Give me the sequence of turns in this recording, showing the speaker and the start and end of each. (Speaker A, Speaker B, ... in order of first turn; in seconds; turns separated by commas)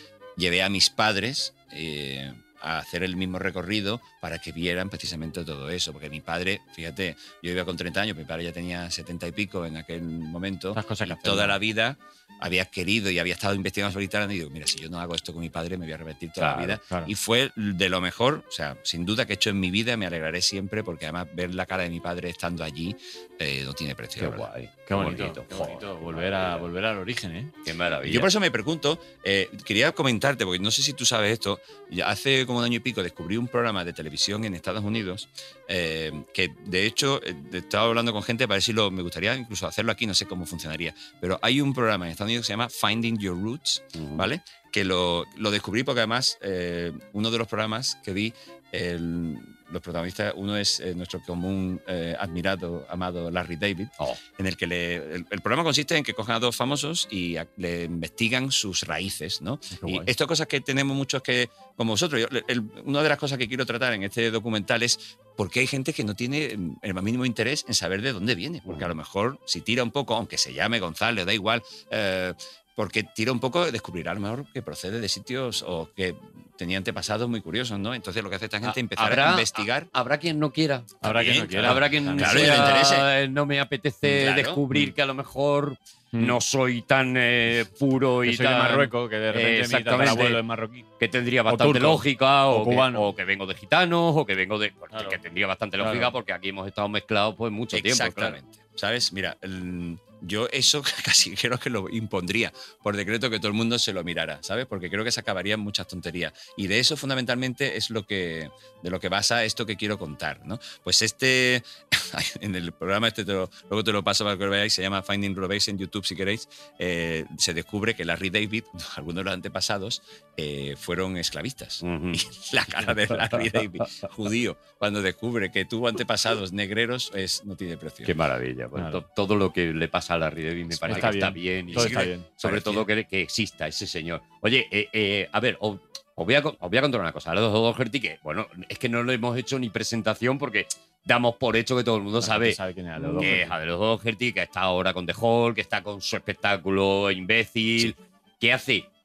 Speaker A: 0.4-24.5, Speaker B: 10.7-11.6, Speaker C: 16.4-16.7, Speaker B: 16.8-17.1, Speaker C: 24.2-26.7, Speaker B: 24.9-27.5, Speaker C: 27.6-28.3, Speaker A: 28.0-79.9, Speaker C: 43.9-44.2, Speaker B: 59.7-60.1, Speaker C: 78.6-81.0, Speaker B: 81.0-82.8, Speaker A: 81.0-83.1, Speaker C: 81.6-90.4, Speaker A: 84.0-84.6, Speaker B: 88.2-90.9, Speaker C: 91.0-98.4, Speaker B: 91.5-93.1, Speaker B: 94.9-95.2, Speaker B: 95.8-96.1, Speaker A: 97.7-128.1, Speaker C: 121.8-122.2, Speaker C: 123.2-123.4, Speaker C: 128.0-148.9, Speaker B: 128.7-129.0, Speaker B: 130.8-132.8, Speaker A: 130.8-131.1, Speaker A: 131.7-132.8, Speaker B: 142.2-143.6